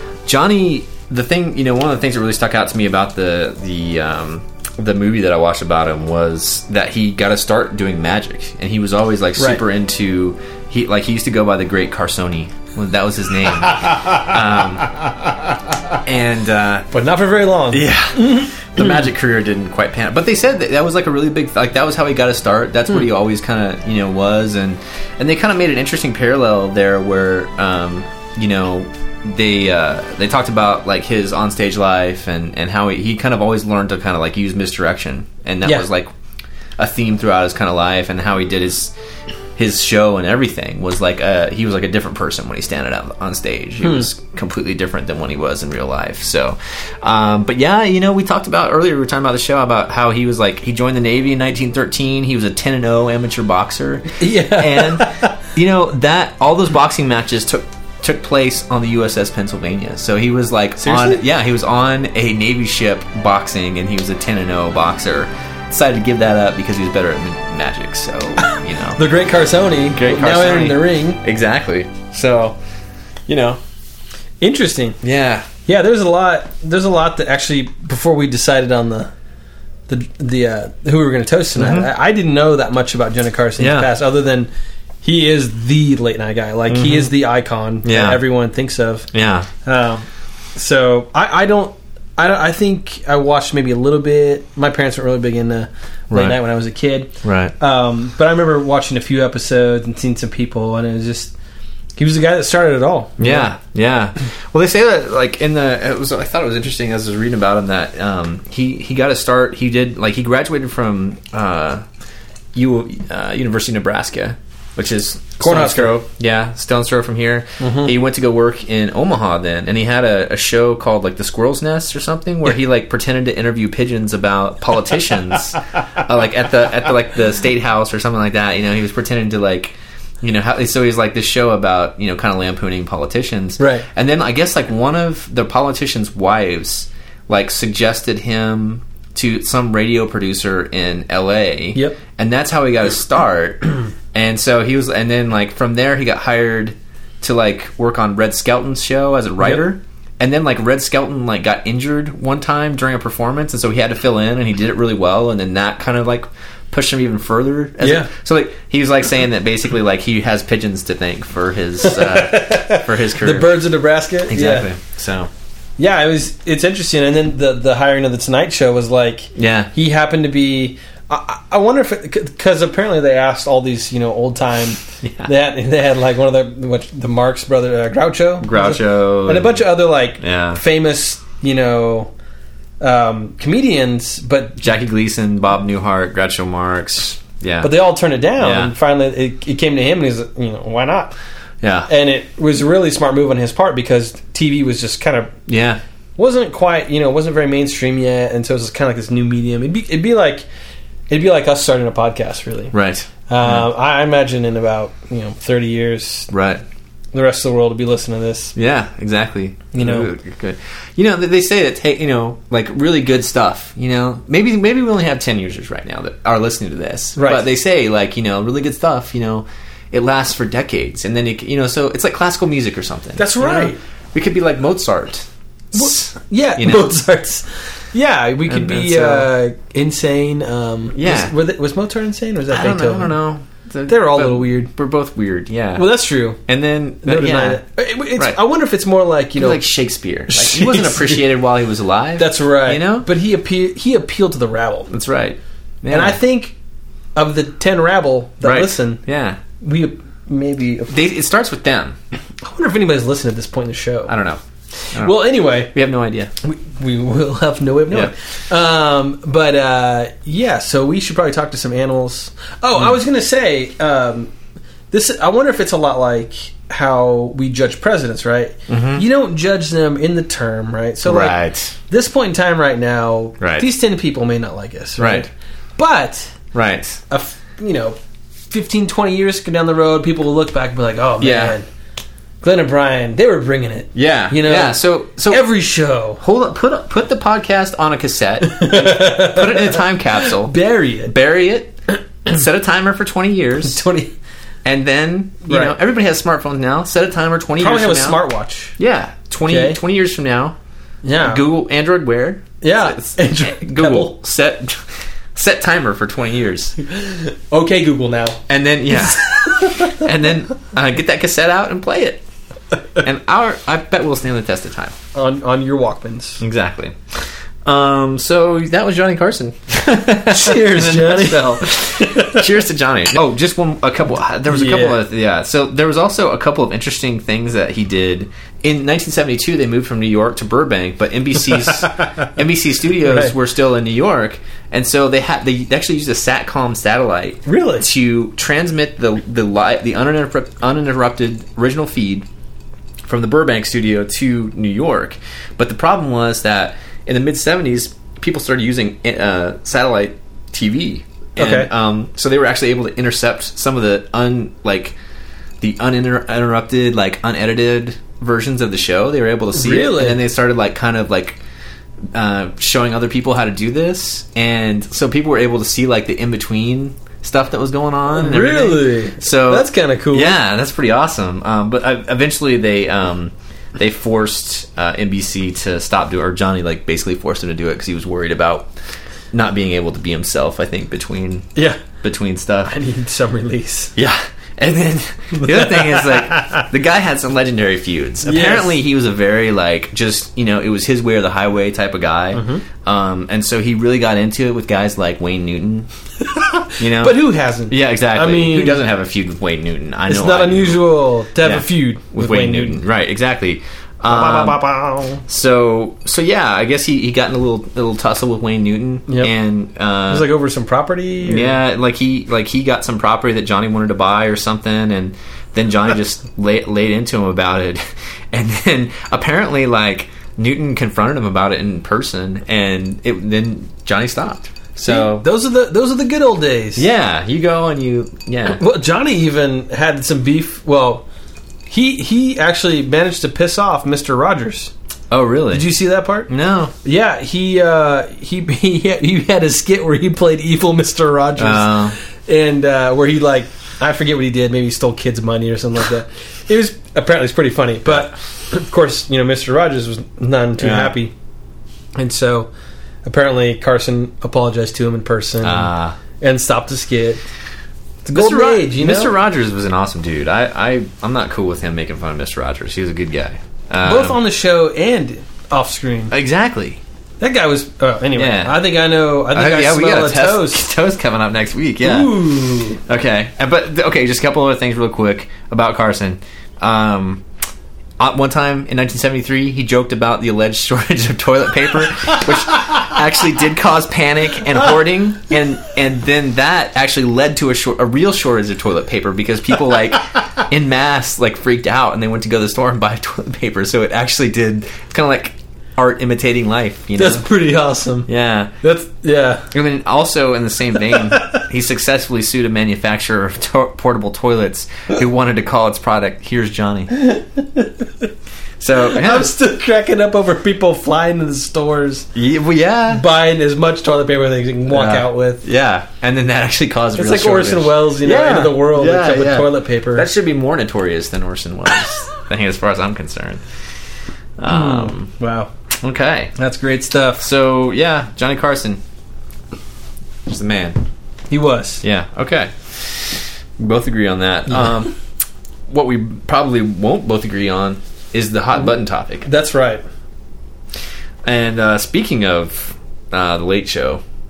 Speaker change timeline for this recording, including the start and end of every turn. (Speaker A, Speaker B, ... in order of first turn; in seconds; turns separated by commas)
Speaker A: 0.2-14.9, Speaker B: 9.4-9.6, Speaker B: 13.8-14.2, Speaker A: 16.0-16.9, Speaker B: 16.9-18.5, Speaker A: 17.7-36.1, Speaker A: 36.8-38.9, Speaker A: 39.5-69.0, Speaker B: 43.8-44.1, Speaker B: 54.2-55.3, Speaker B: 60.8-61.2, Speaker B: 68.4-71.2, Speaker A: 69.9-72.6, Speaker A: 73.3-73.6, Speaker B: 74.4-75.0, Speaker A: 75.0-75.5, Speaker B: 75.7-79.1, Speaker B: 79.9-84.5, Speaker A: 81.5-81.9, Speaker A: 83.6-83.9, Speaker B: 85.0-89.1, Speaker A: 86.7-87.1, Speaker A: 87.8-88.2, Speaker A: 89.1-89.5, Speaker B: 89.6-90.0, Speaker B: 90.5-101.3, Speaker A: 96.1-96.4, Speaker A: 97.2-97.5, Speaker B: 102.0-103.5, Speaker A: 103.2-111.8, Speaker A: 112.5-163.6, Speaker B: 115.4-116.0, Speaker B: 117.6-117.9, Speaker B: 133.6-133.8, Speaker B: 157.8-158.1, Speaker B: 161.8-164.7, Speaker A: 164.2-165.3, Speaker B: 165.8-182.1, Speaker A: 169.3-169.7, Speaker A: 175.0-175.3, Speaker A: 178.4-179.7, Speaker A: 180.2-180.6, Speaker B: 182.8-184.6, Speaker A: 184.6-187.7, Speaker B: 187.6-191.1, Speaker A: 188.4-188.7, Speaker A: 191.6-191.9, Speaker B: 191.9-195.3, Speaker A: 195.5-195.8, Speaker B: 196.2-200.4, Speaker B: 201.1-202.7, Speaker A: 202.7-203.7, Speaker B: 203.3-206.3, Speaker A: 206.3-206.6, Speaker B: 207.1-208.5, Speaker A: 208.5-226.9, Speaker B: 209.7-210.1, Speaker B: 217.2-217.5, Speaker B: 223.2-223.8, Speaker B: 225.7-233.2, Speaker A: 228.4-229.3, Speaker A: 230.9-231.3, Speaker A: 232.5-235.9, Speaker B: 233.9-234.7, Speaker B: 235.7-236.4, Speaker A: 236.4-237.6, Speaker B: 237.0-239.6, Speaker A: 239.3-243.1, Speaker B: 240.3-241.2, Speaker B: 242.2-244.9, Speaker A: 244.9-246.2, Speaker B: 245.9-246.5, Speaker B: 247.2-249.0, Speaker A: 248.4-249.4, Speaker B: 249.6-250.9, Speaker A: 250.9-252.0, Speaker B: 252.4-254.1, Speaker A: 254.1-254.4, Speaker A: 254.9-256.3, Speaker B: 254.9-255.7, Speaker B: 256.4-264.3, Speaker B: 264.9-276.3, Speaker A: 268.7-269.0, Speaker A: 271.0-271.8, Speaker A: 273.4-273.7, Speaker A: 275.0-275.3, Speaker A: 276.5-277.0, Speaker B: 277.1-278.0, Speaker B: 278.5-281.6, Speaker A: 281.2-281.6, Speaker B: 282.4-286.2, Speaker A: 283.9-285.5, Speaker A: 286.2-293.8, Speaker B: 288.4-291.1, Speaker B: 293.6-294.1, Speaker A: 294.6-298.2, Speaker B: 295.4-295.8, Speaker B: 297.6-298.8, Speaker A: 298.8-300.6, Speaker B: 299.4-299.8, Speaker B: 301.0-301.4, Speaker A: 301.2-306.8, Speaker B: 302.6-304.2, Speaker B: 306.8-308.4, Speaker A: 308.5-312.2, Speaker B: 308.9-310.0, Speaker A: 313.0-314.9, Speaker B: 315.1-316.4, Speaker A: 316.4-342.3, Speaker B: 320.2-322.4, Speaker B: 324.5-325.0, Speaker B: 331.8-332.2, Speaker B: 333.0-333.3, Speaker B: 337.4-337.9, Speaker A: 343.0-354.9, Speaker B: 351.4-351.7, Speaker A: 355.6-361.4, Speaker B: 359.5-360.2, Speaker A: 362.1-378.7, Speaker B: 368.1-370.4, Speaker A: 379.3-382.7, Speaker B: 381.5-381.8, Speaker B: 382.6-383.9, Speaker A: 383.9-395.9, Speaker B: 385.3-386.6, Speaker B: 388.2-388.7, Speaker B: 392.3-392.6, Speaker B: 396.2-398.8, Speaker A: 396.8-404.6, Speaker B: 400.1-402.8, Speaker B: 404.1-405.2, Speaker A: 405.2-410.3, Speaker B: 410.1-411.6, Speaker A: 411.2-425.2, Speaker B: 424.8-426.9, Speaker A: 426.8-428.6, Speaker B: 428.4-431.0, Speaker B: 431.7-434.7, Speaker A: 435.1-435.7, Speaker B: 435.5-436.3, Speaker A: 436.3-436.7, Speaker B: 436.8-451.1, Speaker A: 441.4-441.9, Speaker A: 447.9-448.1, Speaker A: 450.6-450.9, Speaker B: 451.9-452.5, Speaker B: 453.0-457.2, Speaker A: 455.4-456.0, Speaker B: 458.0-459.1, Speaker A: 458.1-464.2, Speaker B: 463.8-466.1, Speaker A: 466.1-466.8, Speaker B: 467.2-470.6, Speaker A: 468.1-468.7, Speaker A: 469.3-477.2, Speaker B: 471.8-472.8, Speaker A: 478.0-497.3, Speaker B: 496.9-498.1, Speaker A: 498.1-498.5, Speaker B: 498.6-499.5, Speaker A: 499.5-506.9, Speaker B: 501.1-501.4, Speaker B: 506.9-507.8, Speaker A: 508.6-509.3, Speaker B: 508.8-512.1, Speaker A: 512.1-513.0, Speaker B: 512.9-515.4, Speaker A: 514.7-523.4, Speaker B: 517.0-520.1, Speaker A: 524.4-525.1, Speaker B: 524.5-525.5, Speaker A: 525.8-526.3, Speaker B: 526.4-527.2, Speaker A: 527.2-528.8, Speaker A: 530.3-530.8, Speaker B: 531.3-531.8, Speaker A: 531.8-534.9, Speaker B: 534.5-534.7, Speaker A: 535.7-539.3, Speaker B: 538.5-539.8, Speaker A: 541.2-544.0